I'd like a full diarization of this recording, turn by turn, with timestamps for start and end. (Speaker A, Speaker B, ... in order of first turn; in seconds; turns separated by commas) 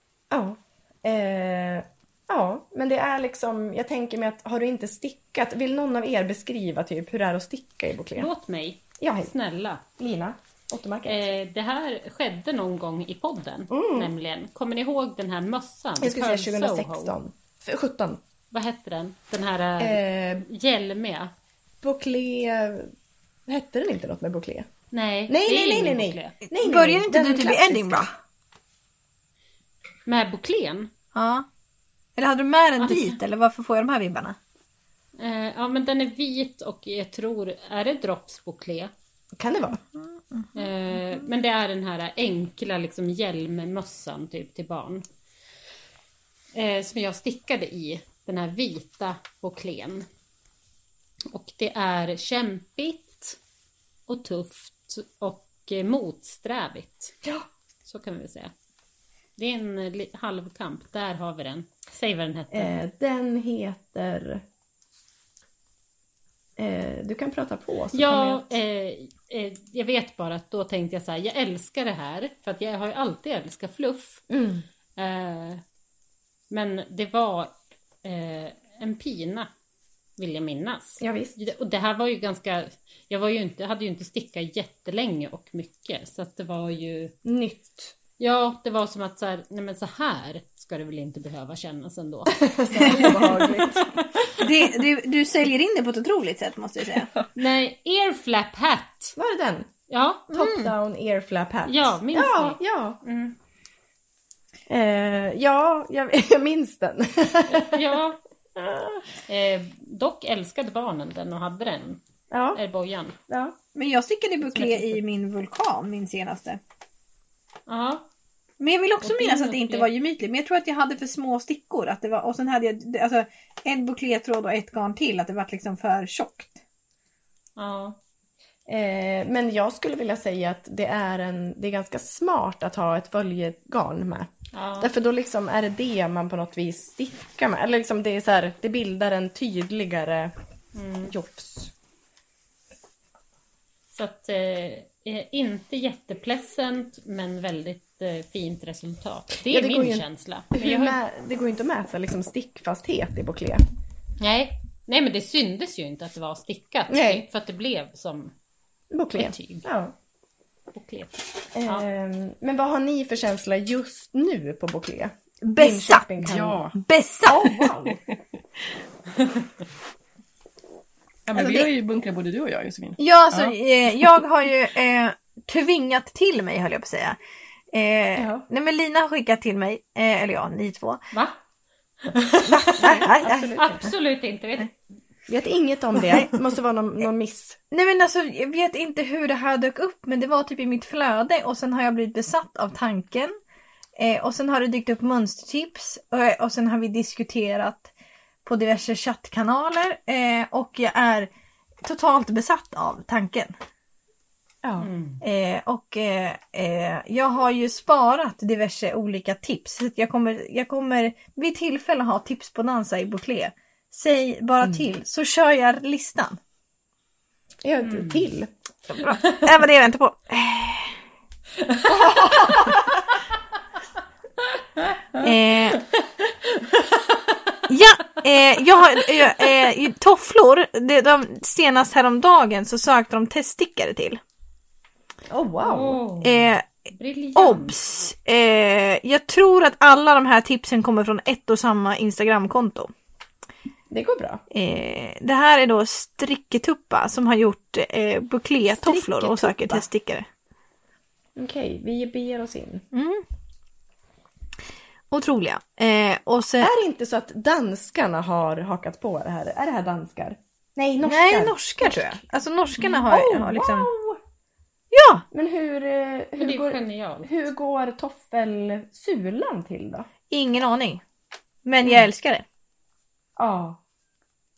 Speaker A: 0.3-8.3, Speaker B: 8.2-9.8, Speaker A: 9.0-9.3, Speaker A: 10.0-11.3, Speaker B: 11.1-17.1, Speaker A: 13.7-14.1, Speaker A: 16.0-18.2, Speaker B: 18.5-21.3, Speaker A: 19.8-20.5, Speaker A: 21.8-22.9, Speaker A: 23.5-24.7, Speaker B: 24.9-26.4, Speaker A: 25.3-28.1, Speaker C: 26.5-28.1, Speaker B: 30.1-30.9, Speaker C: 31.1-31.5, Speaker C: 32.2-34.4, Speaker B: 32.8-33.2, Speaker B: 35.2-38.9, Speaker A: 39.4-39.8, Speaker B: 40.5-45.0, Speaker B: 46.5-50.1, Speaker B: 51.3-53.4, Speaker B: 54.1-57.2, Speaker B: 57.9-58.5, Speaker B: 59.4-62.7, Speaker A: 62.5-64.4, Speaker A: 66.6-68.5, Speaker B: 67.9-74.2, Speaker A: 74.3-74.7, Speaker B: 75.0-75.6, Speaker B: 76.5-79.5, Speaker B: 80.2-87.2, Speaker A: 81.0-81.4, Speaker A: 87.2-87.9, Speaker B: 88.2-94.5, Speaker A: 92.3-93.9, Speaker C: 94.4-97.1, Speaker B: 97.3-99.2, Speaker A: 99.2-99.7, Speaker B: 99.9-100.3, Speaker A: 100.3-103.0, Speaker C: 100.4-100.7, Speaker B: 101.7-103.4, Speaker A: 104.7-107.8, Speaker B: 107.5-108.2, Speaker A: 108.6-109.0, Speaker B: 109.3-112.0, Speaker A: 112.3-112.6, Speaker B: 112.5-113.2, Speaker A: 113.3-113.5, Speaker C: 113.8-116.6, Speaker B: 114.5-115.0, Speaker B: 117.7-118.1, Speaker C: 118.6-126.6, Speaker B: 119.0-119.9, Speaker B: 127.6-128.0, Speaker A: 128.7-140.3, Speaker B: 134.5-134.9, Speaker B: 140.8-141.2, Speaker A: 141.1-141.7, Speaker B: 143.9-151.0, Speaker A: 149.5-153.6, Speaker B: 154.2-158.3, Speaker A: 156.9-157.3, Speaker A: 158.9-159.9, Speaker B: 159.2-159.7, Speaker B: 160.7-161.9, Speaker A: 161.6-166.6, Speaker C: 165.4-167.7, Speaker D: 166.2-166.8, Speaker A: 167.2-168.0, Speaker D: 171.3-174.1, Speaker C: 171.3-171.7, Speaker C: 173.0-177.2, Speaker C: 177.7-181.0, Speaker A: 178.2-178.5, Speaker B: 182.1-184.8, Speaker A: 182.4-183.9, Speaker C: 182.8-183.5, Speaker A: 185.3-187.6, Speaker C: 187.7-193.3, Speaker C: 194.0-197.9, Speaker C: 198.4-201.3, Speaker C: 201.8-203.5, Speaker A: 204.6-204.9, Speaker B: 204.8-205.2, Speaker C: 205.2-216.4, Speaker A: 217.6-218.5, Speaker B: 217.8-218.2, Speaker C: 218.9-221.0, Speaker B: 221.6-222.7, Speaker A: 221.9-222.9, Speaker C: 225.2-225.8, Speaker B: 226.5-227.6, Speaker C: 227.7-234.2, Speaker A: 235.3-236.0, Speaker B: 235.6-237.8, Speaker C: 236.2-236.7, Speaker C: 237.4-242.9, Speaker A: 243.9-244.4, Speaker C: 244.5-250.3, Speaker A: 248.7-249.8, Speaker A: 251.4-252.9, Speaker C: 252.9-253.2, Speaker C: 255.1-256.7, Speaker A: 256.6-262.2, Speaker C: 261.0-263.9, Speaker A: 262.8-264.2, Speaker C: 264.9-265.2, Speaker A: 265.3-270.1, Speaker B: 266.4-267.3, Speaker C: 270.3-271.0, Speaker C: 271.6-272.4, Speaker A: 271.8-272.1, Speaker A: 273.4-273.8